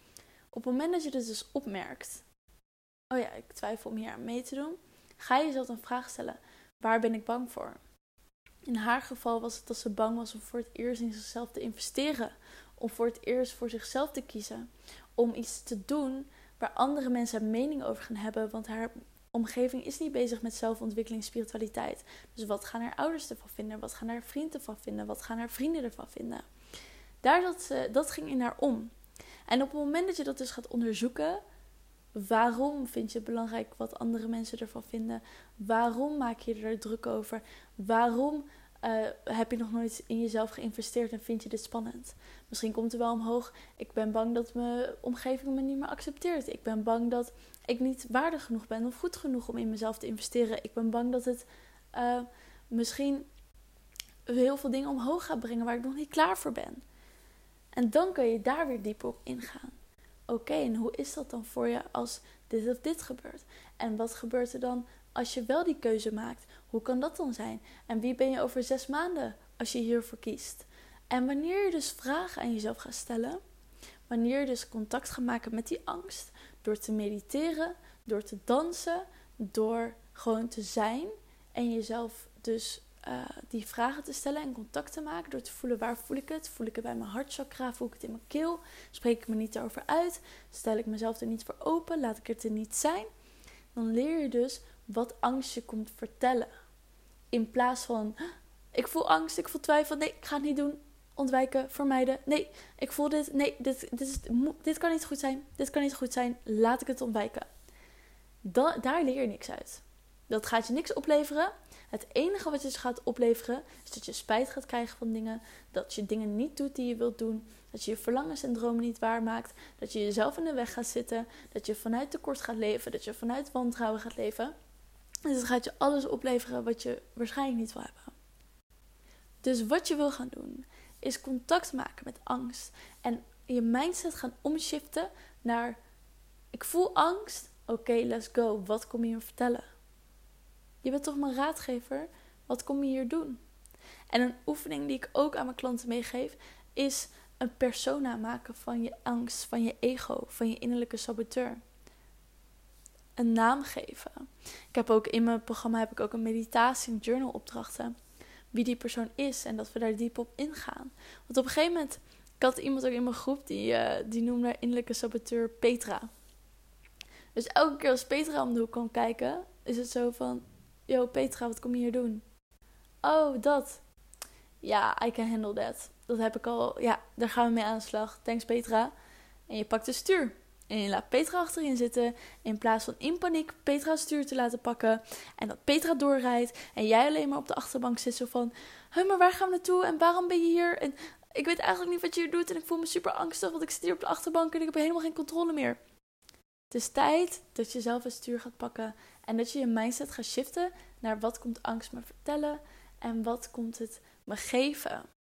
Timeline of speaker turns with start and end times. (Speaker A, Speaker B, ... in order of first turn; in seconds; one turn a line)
Speaker A: 0.5-2.2
Speaker A: 3.1-7.8
Speaker A: 8.7-26.5
Speaker A: 27.2-28.9
Speaker A: 29.5-31.4
Speaker A: 32.1-53.3
Speaker A: 54.3-56.8
Speaker A: 57.7-59.7
Speaker A: 60.3-73.4
Speaker A: 74.1-93.1
Speaker A: 93.7-96.5
Speaker A: 97.3-98.2
Speaker A: 98.7-107.5
Speaker A: 108.4-124.5
Speaker A: 125.2-128.1
Speaker A: 129.4-135.8
Speaker A: 136.5-139.6
Speaker A: 140.8-143.4
Speaker A: 144.1-151.6
Speaker A: 153.2-157.9
Speaker A: 158.5-166.1
Speaker A: 167.3-172.2
Speaker A: 173.0-173.8
Speaker A: 174.6-178.9
Speaker A: 179.5-195.8
Speaker A: 196.7-205.1